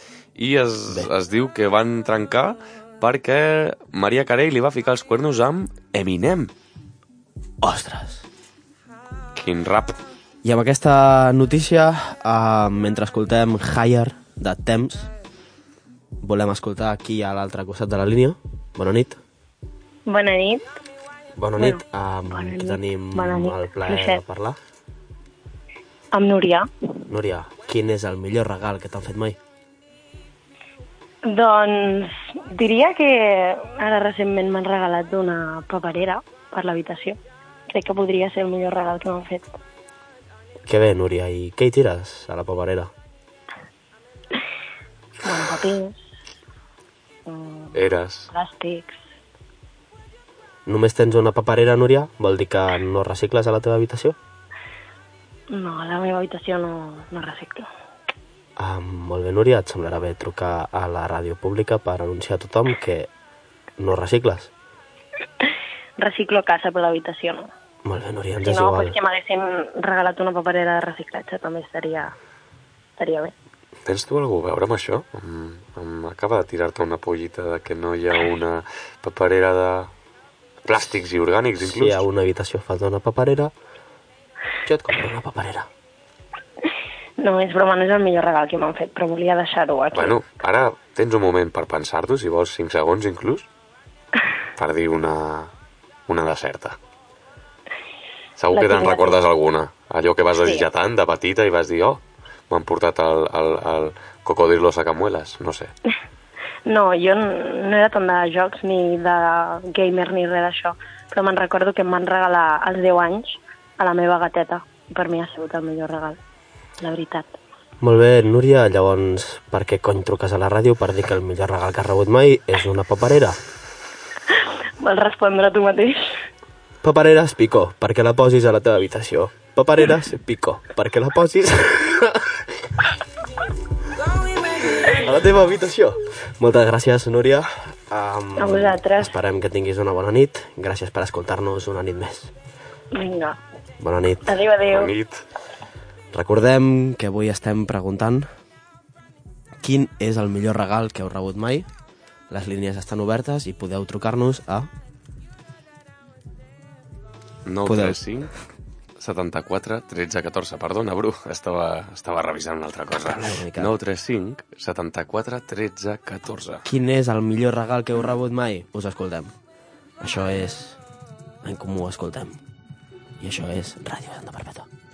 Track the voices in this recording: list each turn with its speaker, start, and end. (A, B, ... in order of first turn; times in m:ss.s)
0:00.4-0:06.5 A
0:07.6-0:08.2 B
0:09.4-0:09.9 A
0:10.4-0:15.1 B
0:16.2-0:19.2 B
0:20.1-0:20.6 C
0:21.4-0:24.6 B
0:21.6-0:24.2 C
0:26.1-0:26.7 C
0:27.1-0:29.4 B
0:31.2-0:37.2 C
0:37.7-0:39.6 C
0:40.6-0:42.9 B
0:45.2-0:46.0 C
0:47.3-0:49.0 C
0:47.7-0:48.3 A
0:50.6-0:54.2 B
0:55.5-0:57.6 C
0:58.6-1:03.1 B
1:03.8-1:04.5 B
1:06.0-1:07.5 C
1:07.8-1:09.0 B
1:08.4-1:12.1 C
1:13.0-1:13.3 C
1:13.8-1:19.9 A
1:20.6-1:22.0 A
1:21.6-1:23.5 B
1:24.6-1:25.7 B
1:27.2-1:30.2 C
1:29.9-1:33.4 A
1:34.6-1:35.5 A
1:36.1-1:36.8 A
1:38.4-1:45.7 A
1:38.5-1:39.2 C
1:40.4-1:40.7 C
1:46.6-1:56.2 C
1:56.8-1:57.3 C
1:57.8-2:03.4 B
2:04.8-2:06.0 C
2:06.8-2:12.2 B
2:15.0-2:22.3 B
2:18.4-2:19.1 C
2:22.9-2:23.4 C
2:23.8-2:24.3 B
2:24.3-2:24.9 C
2:24.7-2:25.2 A
2:26.1-2:28.3 B
2:29.6-2:31.7 B
2:32.3-2:34.7 B
2:37.4-2:38.3 A
2:37.6-2:38.0 B
2:39.0-2:46.6 A
2:42.9-2:43.7 B
2:46.6-2:49.3 B
2:50.0-2:50.8 B
2:51.4-2:52.4 B
2:53.2-2:54.7 B